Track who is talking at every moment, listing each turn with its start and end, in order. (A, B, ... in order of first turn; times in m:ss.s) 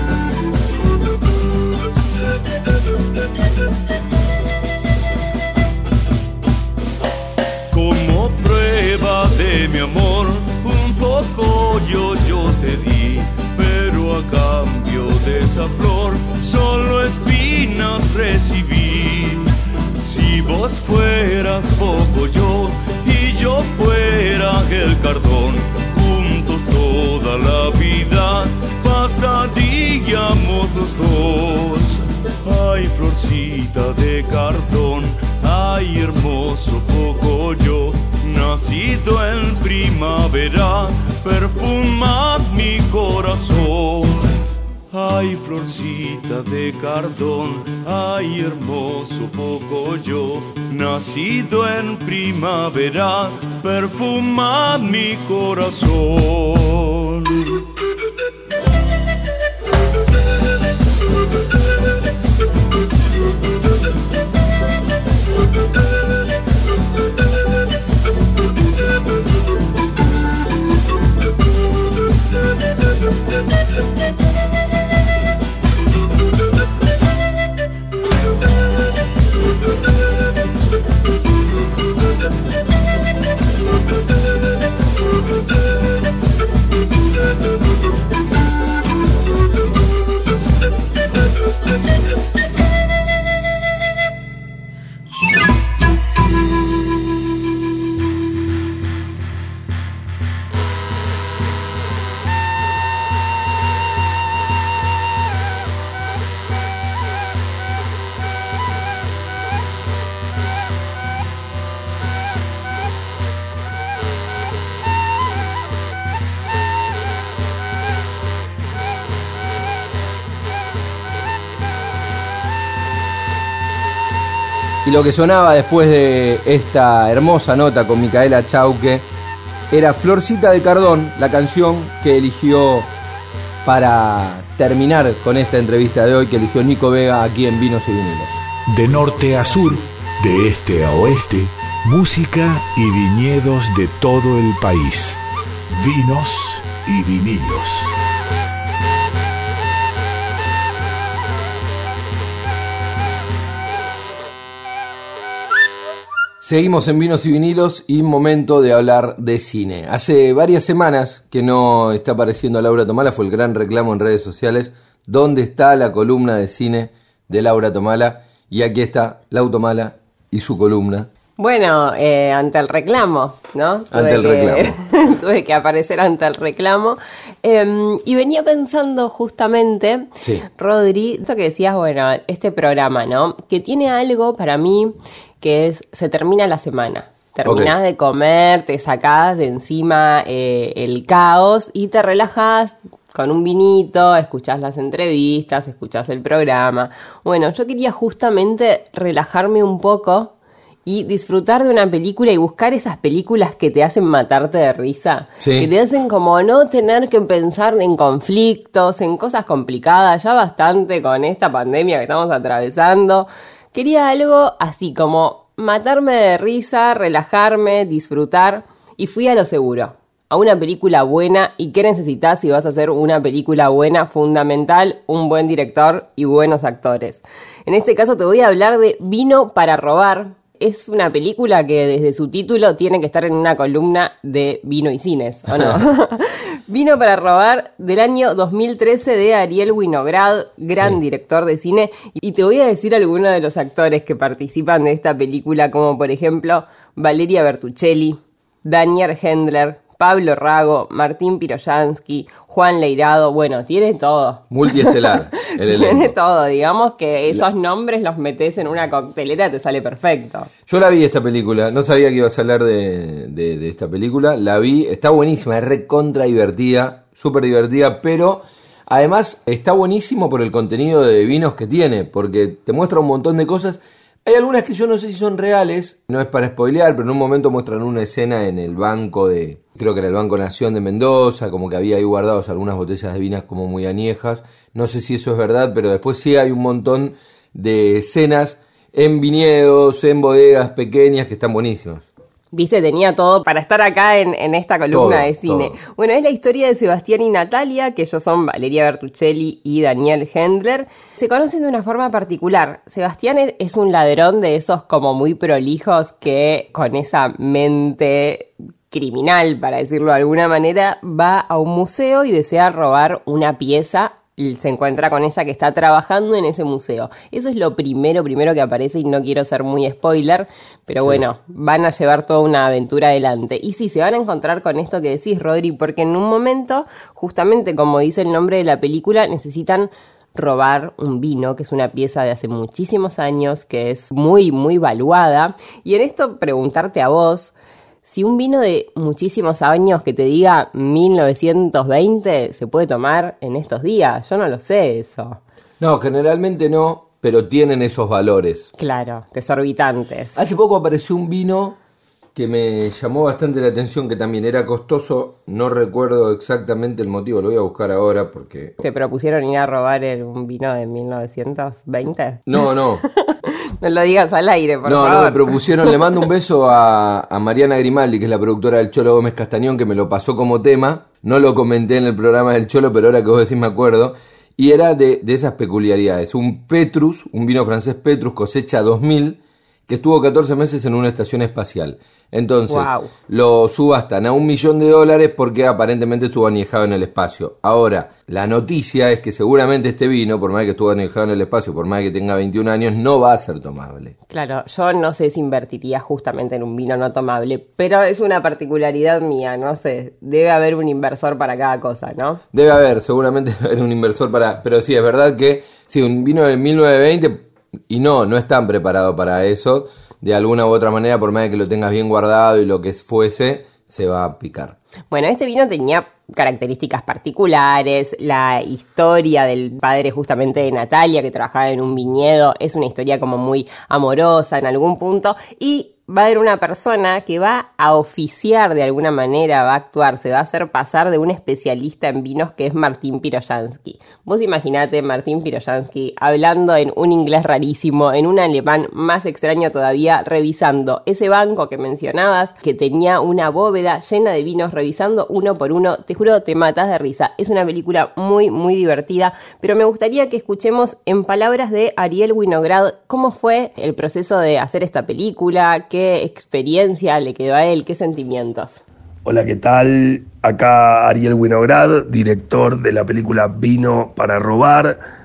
0:07.7-0:44.3 A
0:44.9-0:57.6 A
2:04.8-2:09.1 B
2:09.7-2:12.9 B
2:13.6-2:18.4 B
2:18.7-2:25.2 C
2:25.7-2:28.0 C
2:36.4-2:51.1 B
2:51.4-3:20.3 D
2:53.9-2:54.7 B
3:07.4-3:07.7 B
3:20.8-4:20.5 D
3:25.4-3:25.7 B
3:55.5-3:55.8 B
4:14.5-4:16.1 B
4:20.7-4:52.0 B
4:52.5-5:37.5 D
4:54.9-4:55.8 B
5:38.0-5:45.4 D
5:45.8-5:48.7 B
5:48.8-5:50.4 D
5:50.3-5:51.8 B
5:52.3-5:58.8 B
5:58.8-6:02.4 D
6:02.4-6:03.0 B
6:03.1-6:06.0 D
6:04.8-6:34.1 B
6:22.7-6:23.1 D
6:34.3-6:42.4 D
6:42.5-6:54.8 B
6:55.1-7:38.8 D
7:39.2-7:45.0 E